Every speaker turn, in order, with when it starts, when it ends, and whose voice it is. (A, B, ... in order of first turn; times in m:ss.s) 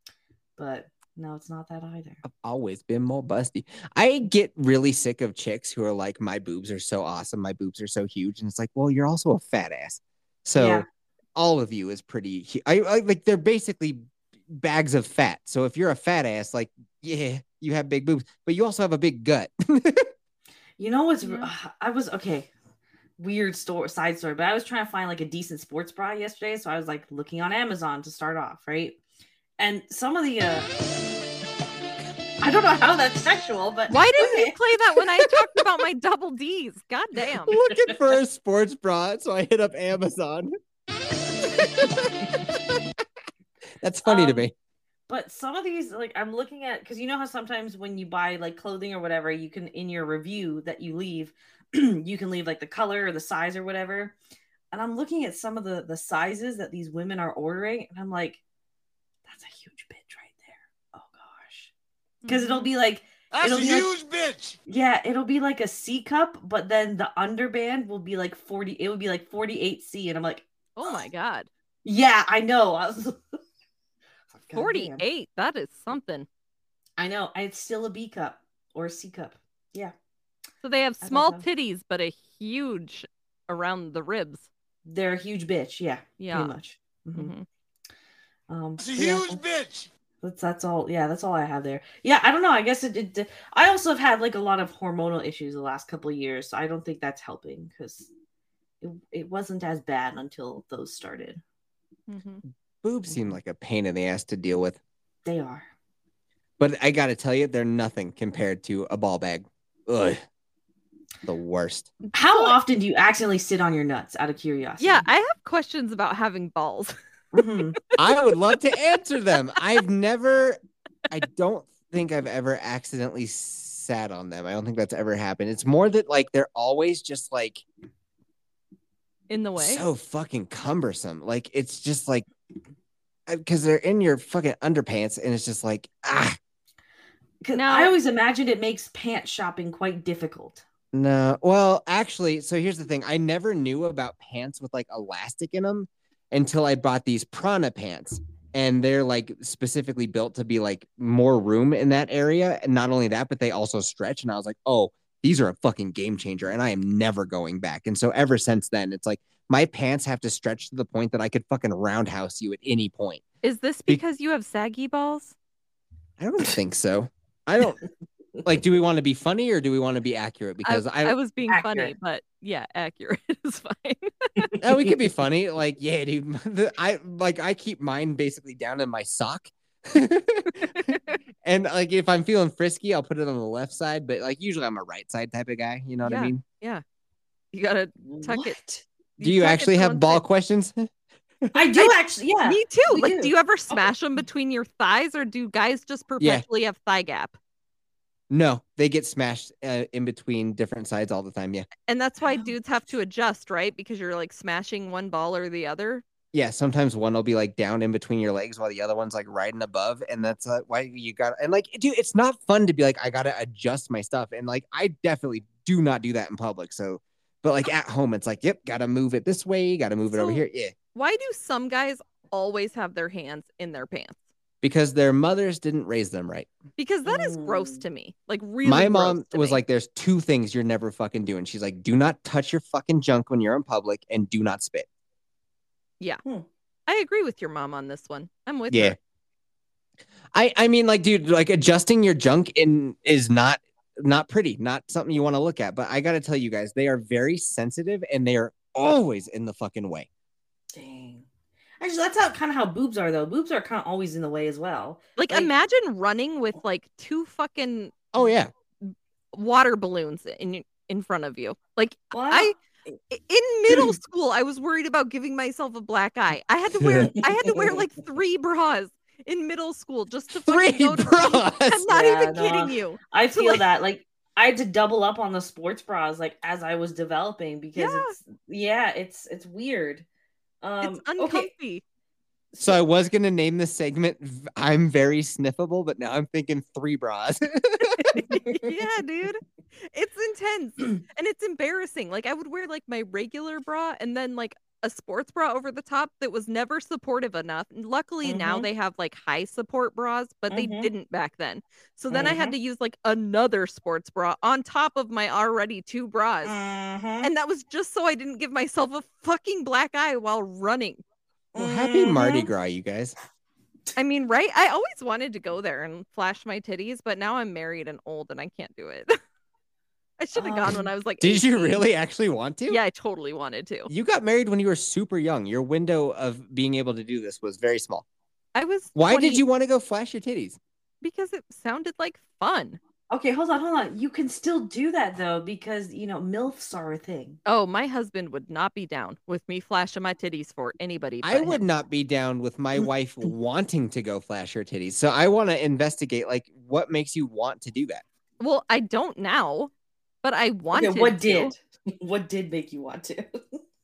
0:00.6-0:02.2 A
0:02.2-0:20.1 B
0:10.6-0:10.9 A
0:20.8-0:22.5 A
0:21.2-0:21.5 C
0:23.2-0:29.0 A
0:29.6-0:30.7 A
0:32.4-0:35.6 A
0:33.9-0:37.6 C
0:37.5-0:40.5 B
0:43.8-0:44.5 B
0:44.0-0:44.5 A
0:45.1-0:54.2 A
0:54.7-0:58.4 A
0:59.2-1:01.7 A
1:02.2-1:02.7 C
1:02.3-1:04.0 A
1:03.3-1:04.6 D
1:04.7-1:11.0 A
1:10.8-1:11.5 C
1:11.8-1:13.2 A
1:14.4-1:15.0 A
1:14.5-1:16.3 C
1:17.0-1:19.9 A
1:20.6-1:24.5 C
1:21.0-1:21.5 A
1:24.8-1:27.3 A
1:26.2-1:26.5 C
1:27.2-1:27.5 C
1:28.5-1:29.5 A
1:28.8-1:29.9 D
1:30.2-1:38.1 A
1:38.8-1:41.4 A
1:42.1-1:42.4 C
1:42.8-1:44.8 B
1:45.2-1:45.7 A
1:46.6-1:50.2 B
1:51.3-1:51.9 B
1:52.1-1:55.0 A
1:52.2-1:52.6 C
1:54.8-1:57.0 C
1:57.3-1:57.8 A
1:58.0-2:07.6 B
2:09.3-2:09.8 C
2:09.6-2:12.3 B
2:13.3-2:16.4 B
2:17.4-2:20.6 A
2:17.5-2:17.9 C
2:20.9-2:43.2 B
2:43.4-2:45.4 C
2:46.2-2:47.8 B
2:48.4-2:51.2 B
2:50.6-2:54.5 C
2:51.5-2:51.9 A
2:54.4-2:54.9 A
2:54.6-3:06.4 B
3:00.7-3:01.2 C
3:06.0-3:06.8 C
3:07.5-3:08.6 C
3:08.0-3:08.8 A
3:09.2-3:10.2 C
3:09.2-3:10.9 B
3:11.5-3:13.9 A
3:12.5-3:17.4 C
3:16.2-3:16.4 B
3:18.3-3:21.7 B
3:21.9-3:26.0 C
3:22.2-3:22.5 A
3:26.3-3:40.7 B
3:40.1-3:40.4 C
3:41.0-3:44.2 C
3:44.6-3:46.5 B
3:46.8-3:49.6 C
3:47.0-3:47.8 A
3:48.6-3:54.9 B
3:56.9-3:59.0 C
3:58.7-3:59.0 B
4:00.3-4:10.1 B
4:10.7-4:11.2 A
4:11.8-4:15.5 A
4:15.2-4:18.1 C
4:18.1-4:18.5 B
4:18.8-4:22.5 C
4:22.1-4:22.5 A
4:23.1-4:33.6 C
4:26.8-4:27.1 B
4:27.2-4:27.8 A
4:30.3-4:31.8 B
4:31.9-4:40.1 A
4:37.8-4:38.2 C
4:40.6-4:41.5 A
4:40.8-4:41.8 C
4:42.5-4:42.8 A
4:42.6-4:48.2 B
4:48.0-5:06.5 C
4:48.3-4:48.6 A
4:58.2-4:58.7 A
5:00.5-5:00.9 A
5:02.1-5:02.6 A
5:06.4-5:07.3 A
5:07.2-5:11.0 C
5:11.5-5:12.5 A
5:11.6-5:13.2 B
5:14.0-5:19.2 C
5:20.2-5:21.8 C
5:20.4-5:20.9 A
5:21.2-5:22.8 B
5:22.7-5:23.9 C
5:23.9-5:28.1 B
5:28.6-5:29.4 C
5:29.0-5:30.6 B
5:31.0-5:32.8 C
5:33.1-5:37.4 A
5:37.5-5:41.6 C
5:41.2-5:48.0 B
5:48.4-5:49.7 C
5:50.2-5:51.5 C
5:50.7-5:53.6 A